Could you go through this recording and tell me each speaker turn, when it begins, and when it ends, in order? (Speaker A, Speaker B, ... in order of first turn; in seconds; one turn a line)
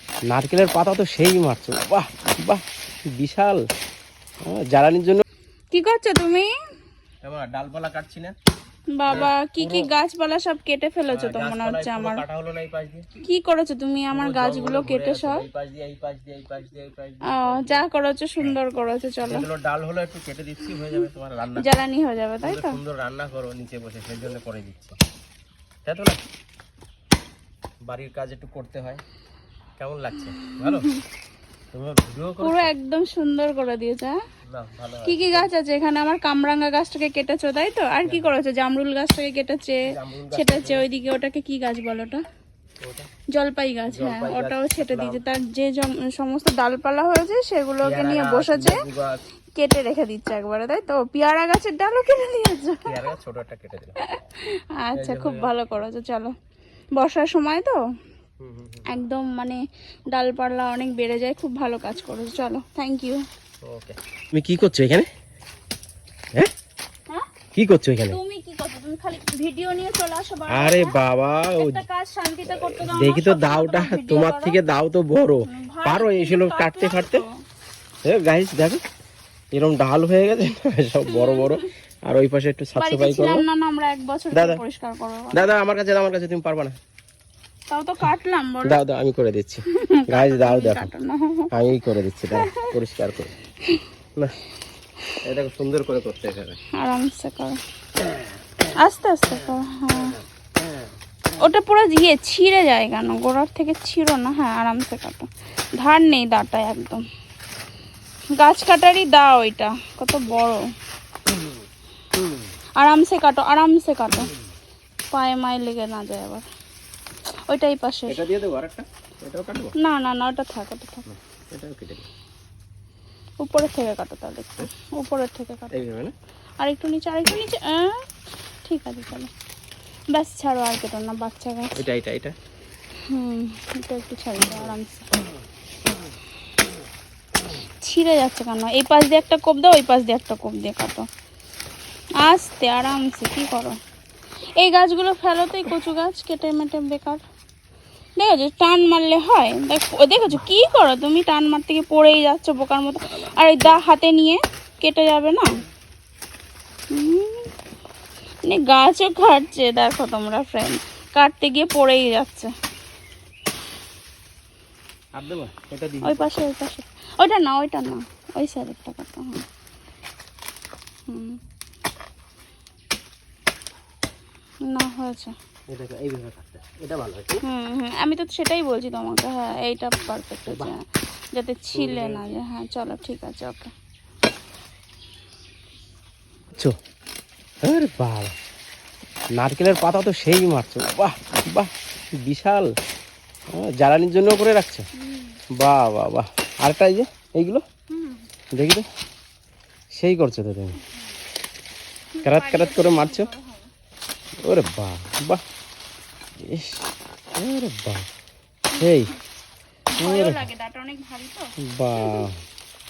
Speaker A: 0.3-2.6
Speaker A: 3.2-3.6
Speaker A: 4.5-5.2
Speaker B: 5.7-6.5
Speaker A: 7.2-8.3
Speaker B: 8.9-12.2
Speaker A: 9.1-9.9
Speaker A: 11.1-13.1
Speaker B: 13.2-15.4
Speaker A: 14.1-17.8
Speaker B: 17.3-19.5
Speaker A: 19.2-21.7
Speaker B: 21.6-22.8
Speaker A: 22.4-24.9
Speaker A: 25.8-26.2
Speaker A: 27.9-29.0
Speaker A: 29.8-30.9
Speaker B: 30.4-31.0
Speaker A: 31.7-32.7
Speaker B: 32.4-34.2
Speaker A: 34.5-35.5
Speaker B: 35.0-39.8
Speaker A: 38.0-38.4
Speaker A: 39.9-40.9
Speaker B: 40.3-42.2
Speaker A: 42.8-43.1
Speaker B: 43.3-48.8
Speaker A: 43.9-45.2
Speaker A: 47.8-49.2
Speaker B: 49.6-53.1
Speaker A: 52.8-54.0
Speaker B: 54.0-56.3
Speaker A: 55.0-55.5
Speaker B: 57.0-57.8
Speaker A: 58.4-58.9
Speaker B: 58.9-63.2
Speaker A: 63.6-65.1
Speaker A: 67.5-68.2
Speaker B: 68.1-71.0
Speaker A: 70.5-71.8
Speaker B: 71.5-74.6
Speaker A: 72.5-77.2
Speaker B: 75.5-77.3
Speaker A: 78.0-78.8
Speaker A: 79.5-83.4
Speaker B: 81.0-81.7
Speaker B: 82.8-85.4
Speaker A: 84.3-84.6
Speaker A: 85.3-86.8
Speaker B: 87.7-88.8
Speaker A: 88.6-90.9
Speaker B: 89.7-91.5
Speaker A: 91.5-93.3
Speaker B: 92.3-92.8
Speaker A: 95.2-96.6
Speaker B: 96.7-97.6
Speaker B: 98.8-100.2
Speaker B: 101.4-107.0
Speaker B: 108.3-110.6
Speaker B: 112.8-114.3
Speaker B: 115.1-116.5
Speaker B: 117.5-118.2
Speaker A: 118.1-119.7
Speaker B: 119.8-121.0
Speaker A: 121.1-122.1
Speaker B: 123.4-125.8
Speaker A: 125.7-126.1
Speaker B: 126.6-128.1
Speaker B: 128.6-129.3
Speaker B: 130.1-131.8
Speaker A: 131.8-132.3
Speaker B: 133.1-135.1
Speaker B: 137.6-141.1
Speaker B: 142.2-143.8
Speaker B: 144.6-147.2
Speaker B: 148.2-155.5
Speaker B: 156.9-157.5
Speaker B: 158.5-162.5
Speaker A: 165.1-166.4
Speaker B: 166.0-169.4
Speaker B: 171.1-171.4
Speaker B: 174.7-175.3
Speaker A: 175.7-177.4
Speaker B: 177.4-183.7
Speaker A: 180.5-180.7
Speaker A: 181.7-182.2
Speaker A: 187.6-188.3
Speaker A: 189.4-191.7
Speaker A: 192.2-192.7
Speaker A: 193.5-194.9
Speaker B: 195.0-195.4
Speaker A: 195.6-197.6
Speaker B: 197.9-198.3
Speaker A: 198.5-198.8
Speaker A: 199.9-200.8
Speaker B: 202.1-203.7
Speaker A: 202.2-203.3
Speaker A: 204.4-205.4
Speaker A: 206.4-208.1
Speaker A: 208.8-209.1
Speaker B: 208.8-209.2
Speaker B: 209.9-212.3
Speaker A: 210.0-210.4
Speaker A: 211.7-212.4